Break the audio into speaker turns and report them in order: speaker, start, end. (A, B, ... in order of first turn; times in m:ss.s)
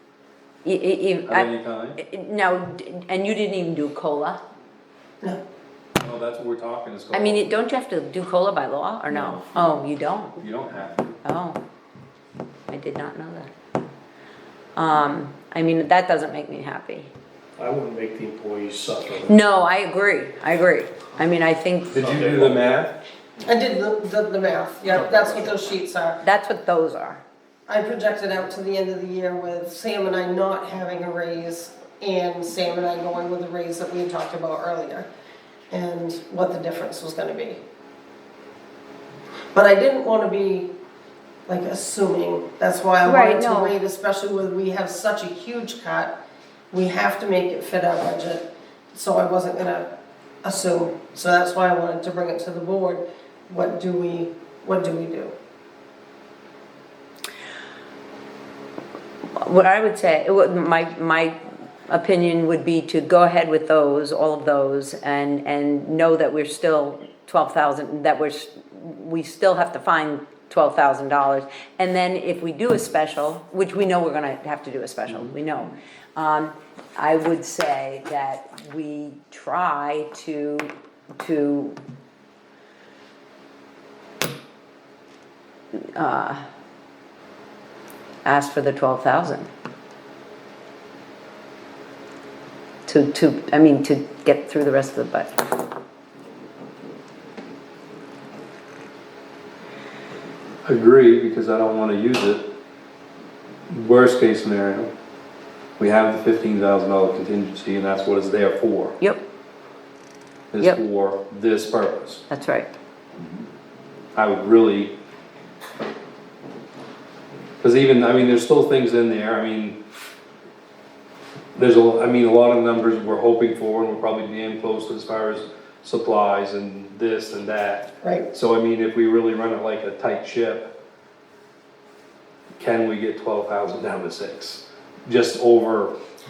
0:00.6-0:04.4 A
0:01.3-0:02.0 B
0:06.0-0:07.4 B
0:07.1-0:10.4 A
0:09.1-0:09.4 B
0:10.4-0:11.2 B
0:11.2-0:11.6 A
0:12.7-0:13.5 A
0:14.8-0:17.1 A
0:17.6-0:19.3 C
0:19.3-0:22.0 A
0:21.9-0:22.6 C
0:21.9-0:22.9 B
0:23.4-0:26.2 D
0:24.9-0:25.6 C
0:26.2-0:27.2 A
0:27.7-0:35.1 D
0:35.7-0:37.6 D
0:39.5-0:40.7 D
0:41.5-0:46.1 D
0:43.0-0:43.7 A
0:46.7-0:49.9 D
0:50.4-0:55.3 D
0:59.4-1:01.4 A
1:01.9-1:21.8 A
1:15.1-1:15.4 B
1:25.9-1:26.4 A
1:28.2-1:29.5 A
1:32.8-1:35.3 A
1:40.6-1:42.4 B
1:43.7-1:44.9 B
1:45.8-1:49.0 B
1:50.5-1:52.2 B
1:52.3-1:52.7 A
1:54.1-1:54.9 B
1:57.6-1:59.8 B
2:01.6-2:10.7 B
2:12.6-2:15.9 B